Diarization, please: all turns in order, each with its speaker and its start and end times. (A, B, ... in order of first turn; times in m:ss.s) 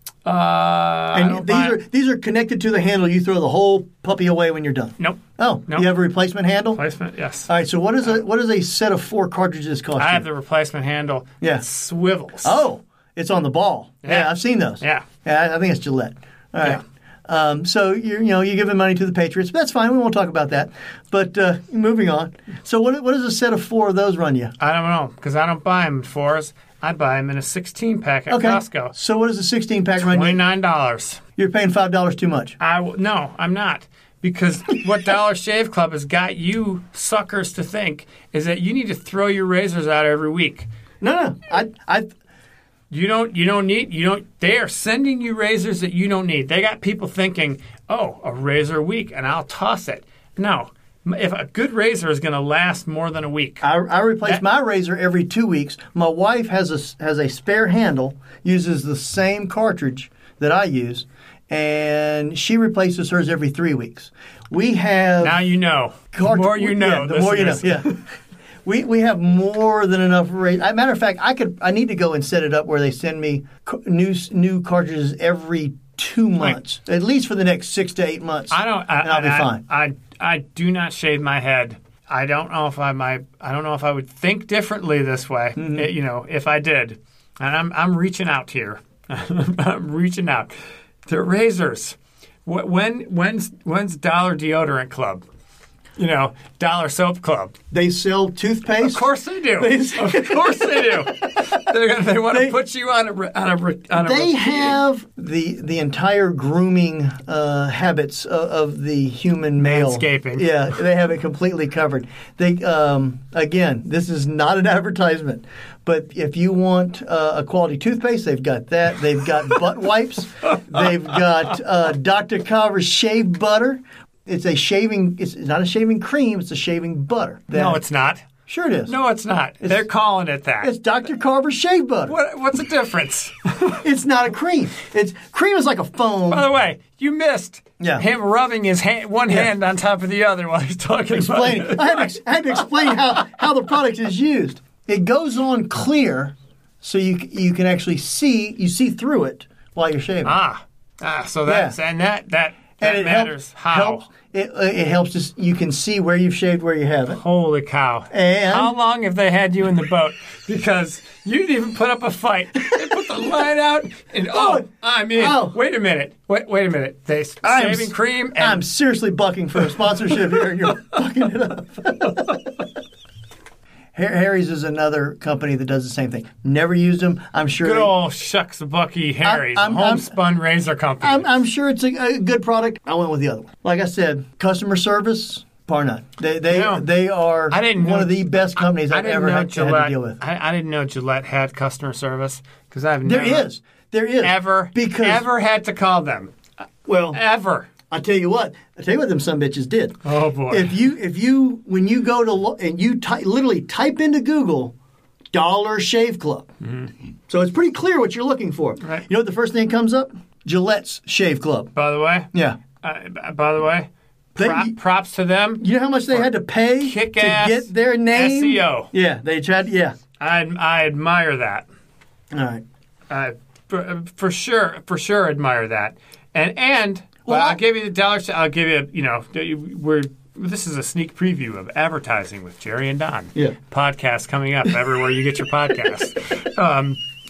0:00.3-0:01.8 A
0:01.1-0:06.8 B
0:05.0-0:05.9 A
0:06.7-0:07.5 A
0:07.5-0:10.2 B
0:10.0-0:12.6 A
0:12.4-0:24.5 B
0:14.0-0:15.1 A
0:24.6-0:28.9 A
0:28.3-0:30.4 B
0:30.0-0:31.2 A
0:31.4-0:32.6 B
0:32.6-0:40.7 A
0:41.0-0:42.1 B
0:42.9-0:53.7 A
0:53.6-1:05.4 B
1:05.2-1:08.0 A
1:06.1-1:08.0 B
1:08.6-1:19.6 B
1:18.5-1:30.5 A
1:25.6-1:25.9 B
1:31.1-1:35.2 A
1:36.0-1:37.6 A
1:37.7-1:41.6 B
1:38.8-1:44.8 A
1:44.0-2:07.8 B
1:49.6-1:50.5 A
2:07.5-2:08.3 A
2:08.5-2:08.9 B
2:08.9-2:10.7 A
2:10.6-2:12.1 B
2:12.1-2:13.8 A
2:13.8-2:16.5 B
2:16.3-2:22.1 A
2:17.8-2:18.0 B
2:21.1-2:30.4 B
2:30.2-2:34.1 A
2:31.5-2:31.8 B
2:32.8-2:37.2 B
2:37.1-2:48.6 A
2:38.1-2:38.7 B
2:44.3-2:45.6 B
2:47.4-2:52.5 B
2:53.9-2:57.9 B
2:57.6-3:01.3 A
2:59.2-3:00.1 B
3:01.0-3:10.2 B
3:06.5-3:06.8 A
3:07.5-3:08.2 A
3:08.7-3:13.5 A
3:13.0-3:15.2 B
3:14.2-3:16.4 A
3:16.9-3:17.2 B
3:17.1-3:17.7 A
3:17.9-3:24.7 B
3:20.0-3:20.8 A
3:25.3-3:26.5 B
3:26.6-3:26.9 A
3:27.3-3:31.7 B
3:31.8-3:32.3 A
3:32.3-3:32.6 B
3:32.8-3:38.9 A
3:34.4-3:34.8 B
3:35.6-3:40.0 B
3:40.2-3:41.6 A
3:42.3-3:42.6 B
3:43.1-3:57.0 A
3:47.3-3:47.6 B